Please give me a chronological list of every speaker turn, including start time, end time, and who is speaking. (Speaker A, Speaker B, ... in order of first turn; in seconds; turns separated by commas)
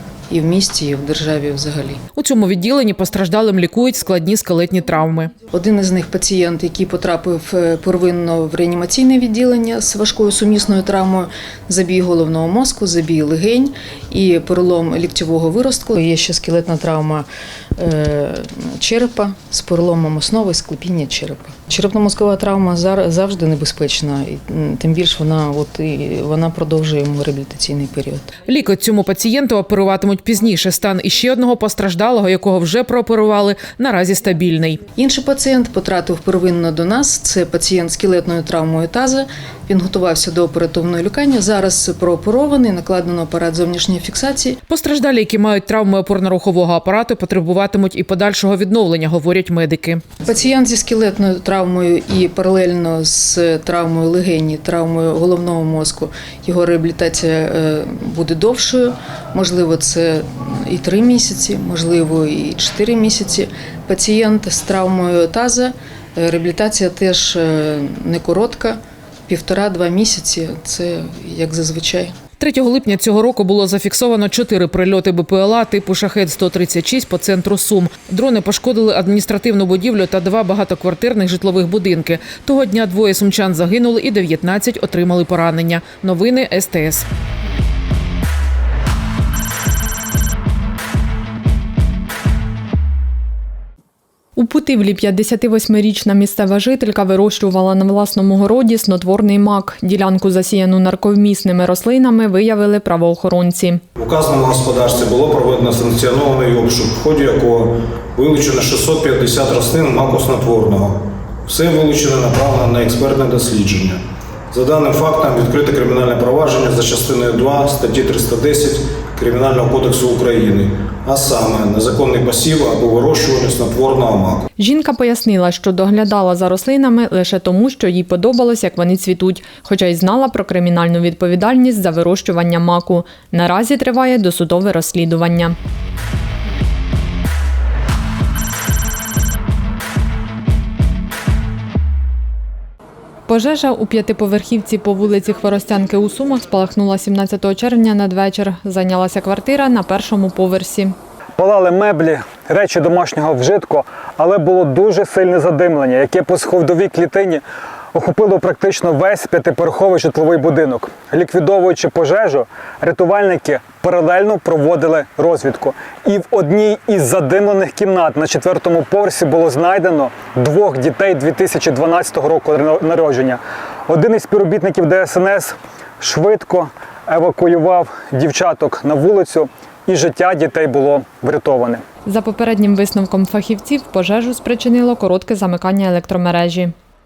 Speaker A: 0.3-2.0, Speaker B: 2.2-5.3, Speaker A: 5.5-28.4, Speaker B: 28.4-34.8, Speaker A: 34.9-44.6, Speaker B: 44.7-50.1, Speaker A: 50.2-72.1, Speaker B: 72.4-87.1, Speaker C: 94.4-103.8, Speaker D: 104.0-124.5, Speaker C: 124.6-135.6, Speaker C: 143.3-151.0, Speaker E: 151.4-157.4, Speaker E: 157.9-181.8, Speaker C: 182.1-186.8